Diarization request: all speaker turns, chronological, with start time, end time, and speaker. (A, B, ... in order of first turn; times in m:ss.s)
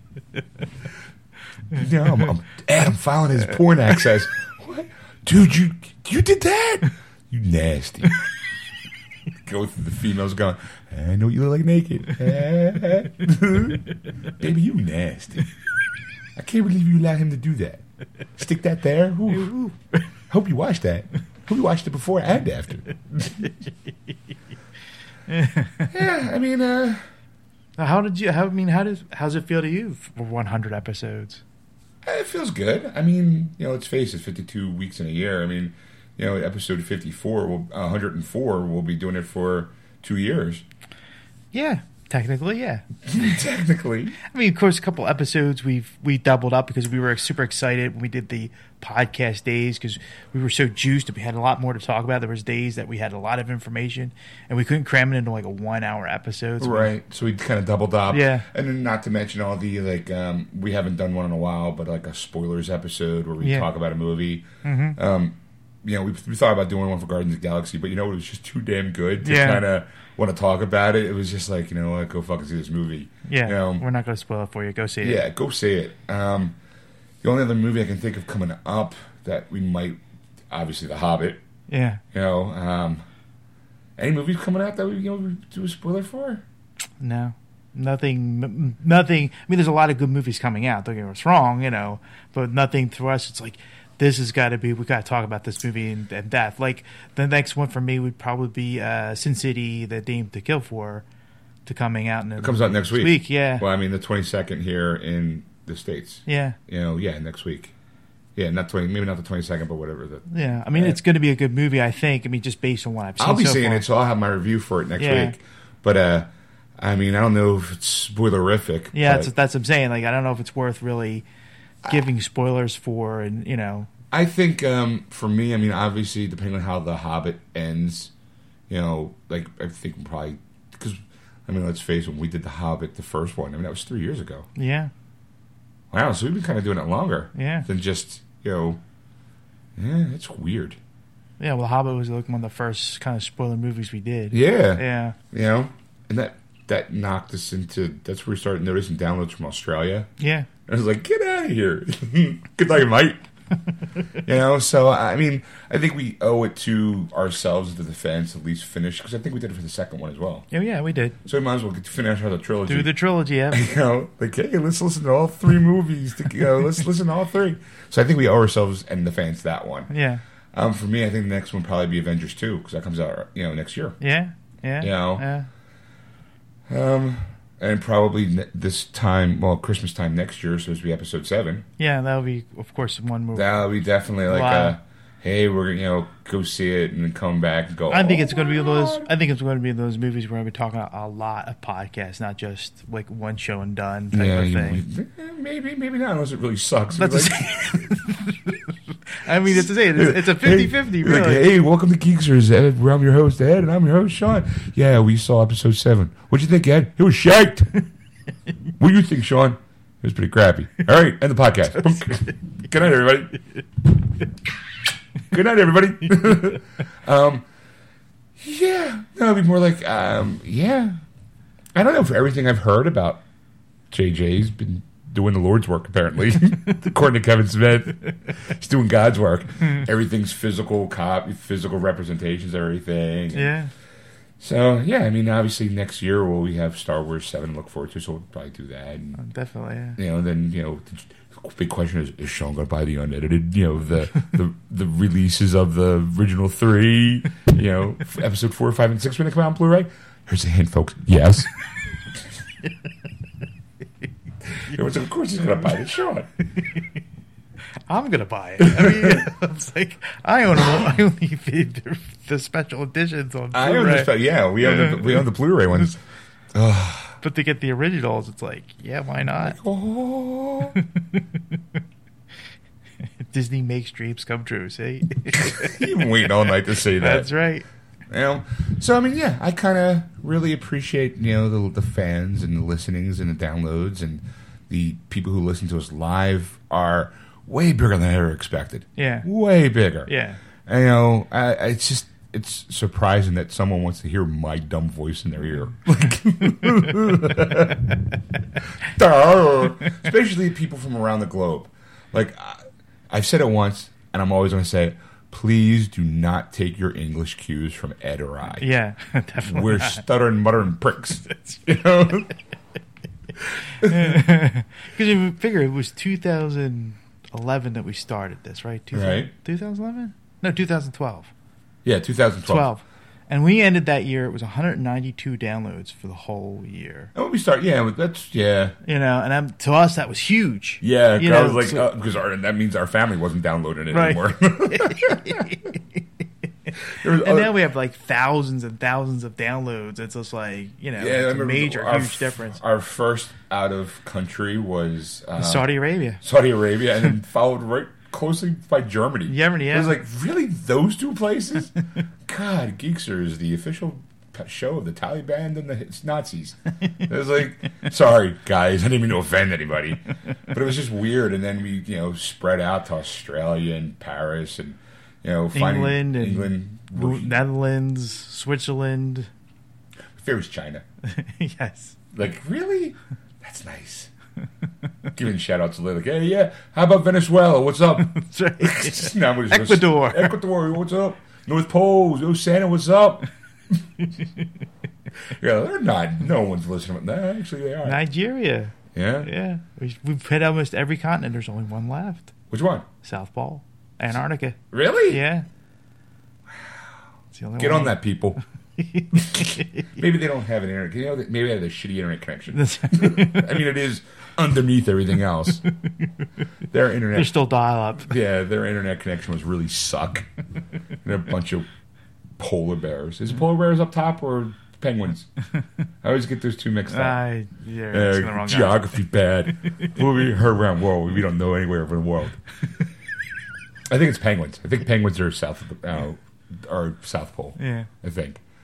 0:01.7-0:08.2 A
0:09.4-0:15.5 A
0:16.4-0:17.8 A
0:18.4-0:19.6 A
0:19.3-0:20.1 B
0:20.3-0:23.5 A
0:25.3-0:25.9 B
0:25.9-0:27.1 A
0:27.8-0:31.4 B
0:32.0-0:40.6 A
0:41.5-0:42.8 B
0:43.1-0:44.2 A
0:44.3-0:56.9 B
0:56.6-1:13.9 A
0:58.1-0:58.5 B
1:03.4-1:03.7 B
1:04.6-1:05.0 B
1:09.2-1:09.6 B
1:13.3-1:15.2 B
1:15.0-1:16.6 A
1:17.2-1:21.4 A
1:21.7-1:22.0 B
1:22.1-1:23.0 A
1:24.0-1:26.4 A
1:27.0-1:41.1 B
1:41.7-1:43.7 B
1:42.4-1:47.8 A
1:46.3-1:46.6 B
1:48.4-1:51.0 A
1:50.3-1:53.8 B
1:53.2-1:59.3 A
1:55.0-1:55.4 B
1:58.9-2:01.2 B
2:01.8-2:02.1 A
2:01.9-2:03.9 B
2:04.1-2:08.1 A
2:08.7-2:14.5 A
2:14.6-2:14.9 B
2:15.9-2:18.8 A
2:17.4-2:17.7 B
2:19.8-2:20.8 A
2:21.4-2:25.2 B
2:24.3-2:30.1 A
2:30.2-2:30.5 B
2:30.7-2:33.2 A
2:34.1-2:40.5 A
2:40.5-2:41.2 B
2:41.2-2:43.0 A
2:42.7-2:43.6 B
2:43.5-2:49.9 A
2:49.9-2:50.2 B
2:50.5-2:54.0 A
2:54.0-2:55.5 B
2:54.8-2:55.3 A
2:56.7-3:01.7 A
3:01.8-3:03.6 B
3:03.3-3:09.1 A
3:04.3-3:04.8 B
3:07.9-3:14.8 B
3:14.1-3:18.0 A
3:16.9-3:21.4 B
3:19.3-3:27.8 A
3:28.8-3:33.4 A
3:35.3-3:37.5 A
3:38.4-3:41.0 A
3:41.8-3:43.2 A
3:43.9-3:53.5 A
3:53.3-3:53.7 B
3:54.4-3:59.2 A
3:59.2-4:00.0 B
4:00.0-4:11.5 A
4:14.4-4:16.3 A
4:17.9-4:25.3 B
4:18.6-4:19.3 A
4:23.5-4:26.0 A
4:26.5-4:27.2 A
4:27.2-4:29.6 B
4:29.4-4:30.8 A
4:30.8-4:31.6 B
4:33.2-4:35.9 B
4:35.3-4:37.3 A
4:36.9-4:37.7 B
4:38.1-4:57.9 A
4:49.0-4:49.3 B
4:50.1-4:50.4 B
4:58.7-5:08.7 A
5:08.6-5:10.0 B
5:09.4-5:12.3 A
5:11.3-5:11.7 B
5:13.4-5:14.2 A
5:13.8-5:21.3 B
5:18.9-5:19.3 A
5:21.8-5:22.7 A
5:22.5-5:27.1 B
5:27.2-5:28.8 A
5:28.8-5:31.9 B
5:30.8-5:35.4 A
5:33.9-5:42.6 B
5:36.9-5:37.6 A
5:41.0-5:51.7 A
5:45.4-5:46.2 B
5:49.3-5:50.0 B
5:52.3-6:07.4 A
6:05.5-6:09.3 B
6:10.1-6:10.8 A
6:11.0-6:12.0 B
6:12.1-6:14.1 A
6:15.2-6:23.3 A
6:18.1-6:20.4 B
6:25.2-6:28.0 A
6:27.8-6:32.3 B
6:28.9-6:29.3 A
6:32.5-6:32.9 A
6:33.0-6:35.5 B
6:34.7-6:35.2 A
6:36.5-6:36.9 A
6:37.3-6:40.0 B
6:37.6-6:38.4 A
6:39.2-6:45.6 A
6:42.5-6:43.6 B
6:45.9-6:46.1 B
6:46.7-6:47.4 A
6:47.2-6:48.2 B
6:48.0-6:50.3 A
6:51.0-6:51.7 A
6:52.4-6:55.3 A
6:56.0-6:57.2 A
6:56.9-6:58.9 B
6:57.9-7:02.4 A
6:59.7-7:00.0 B
7:03.9-7:08.4 A
7:07.6-7:07.9 B